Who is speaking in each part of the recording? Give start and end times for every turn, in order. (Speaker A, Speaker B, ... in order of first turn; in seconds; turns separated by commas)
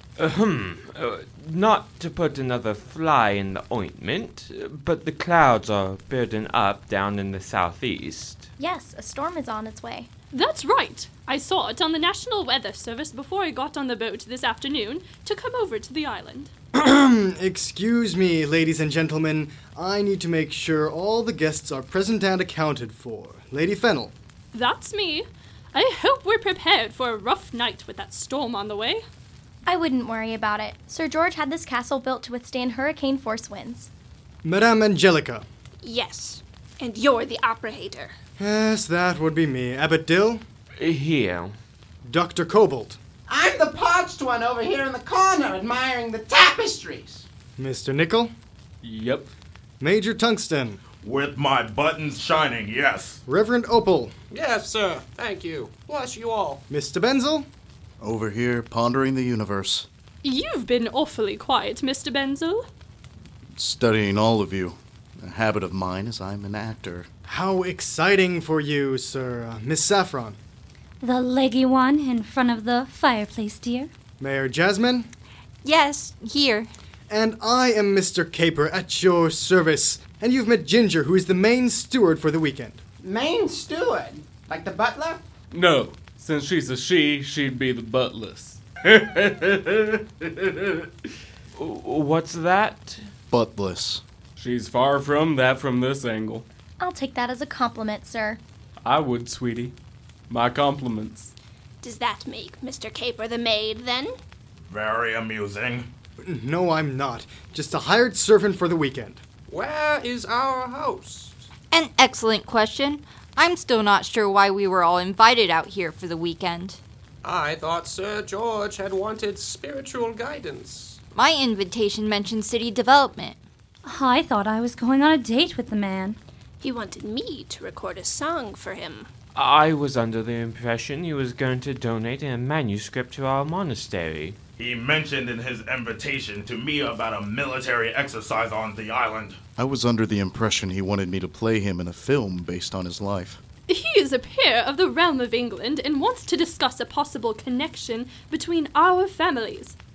Speaker A: 0.2-8.5, Speaker B: 8.6-10.1, Speaker C: 10.3-16.5, Speaker D: 16.7-24.1, Speaker C: 24.5-29.0, Speaker B: 29.6-33.9, Speaker D: 34.4-35.4, Speaker E: 35.8-38.1, Speaker D: 38.4-40.4, Speaker A: 40.8-41.5, Speaker D: 42.0-43.0, Speaker F: 43.3-47.2, Speaker D: 47.6-48.3, Speaker G: 48.8-49.3, Speaker D: 49.8-50.8, Speaker H: 51.0-53.2, Speaker D: 53.3-54.1, Speaker I: 54.3-56.6, Speaker D: 56.7-57.5, Speaker J: 58.0-59.9, Speaker C: 60.2-62.6, Speaker J: 63.5-67.1, Speaker D: 67.3-70.4, Speaker K: 71.0-73.9, Speaker D: 74.2-75.1, Speaker L: 75.6-76.7, Speaker D: 77.1-82.8, Speaker F: 83.0-85.2, Speaker G: 85.5-91.1, Speaker A: 91.5-93.0, Speaker J: 93.3-94.0, Speaker G: 94.3-96.5, Speaker B: 96.8-98.4, Speaker G: 98.8-99.7, Speaker G: 100.3-101.3, Speaker E: 101.8-104.1, Speaker H: 104.7-105.9, Speaker D: 106.2-109.2, Speaker I: 109.5-111.5, Speaker L: 111.7-116.8, Speaker I: 117.2-121.0, Speaker L: 121.1-123.4, Speaker K: 123.8-126.2, Speaker E: 126.6-129.1, Speaker A: 129.3-134.4, Speaker H: 134.6-139.4, Speaker J: 139.6-143.4, Speaker C: 143.7-149.8